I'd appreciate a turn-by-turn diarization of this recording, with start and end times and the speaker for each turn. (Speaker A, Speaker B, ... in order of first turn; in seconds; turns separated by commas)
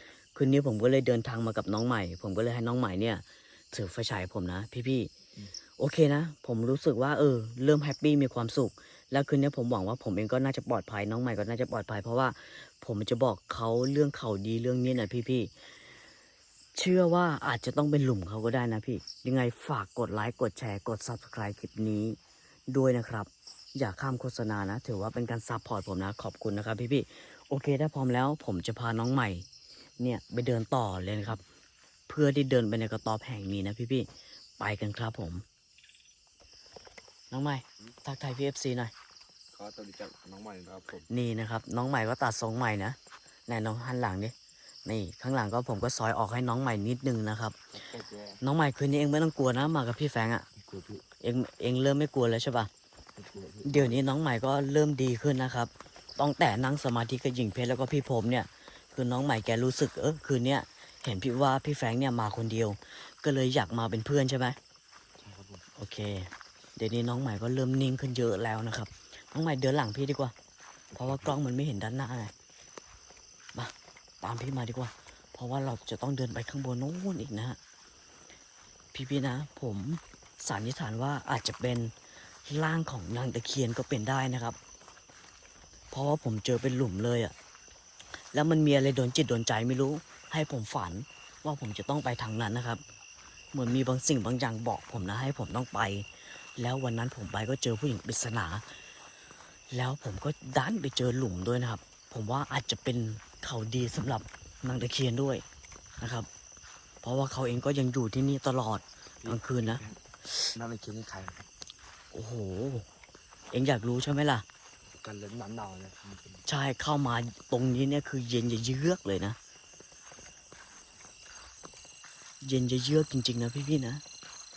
Speaker A: 0.3-5.1, Speaker A: 5.8-15.5, Speaker A: 16.8-22.2, Speaker A: 22.7-29.5, Speaker A: 30.0-31.4, Speaker A: 32.1-34.1, Speaker A: 34.6-35.4, Speaker A: 37.3-38.9, Speaker B: 39.5-41.1, Speaker A: 41.1-44.3, Speaker A: 44.9-47.6, Speaker B: 47.7-48.4, Speaker A: 48.4-50.5, Speaker B: 50.5-51.0, Speaker A: 51.2-52.7, Speaker B: 53.1-54.0, Speaker A: 53.6-64.6, Speaker B: 65.2-65.7, Speaker A: 65.8-70.3, Speaker B: 70.9-71.4, Speaker A: 71.0-72.3, Speaker A: 73.5-77.6, Speaker A: 78.9-81.9, Speaker A: 82.5-84.6, Speaker A: 85.9-87.3, Speaker A: 88.3-92.8, Speaker A: 93.5-98.6, Speaker A: 99.7-105.5, Speaker A: 106.0-106.3, Speaker A: 107.0-109.8, Speaker B: 109.2-110.0, Speaker B: 110.5-111.5, Speaker A: 112.1-112.9, Speaker A: 113.5-114.5, Speaker B: 115.0-116.5, Speaker A: 116.5-119.4, Speaker A: 122.4-124.0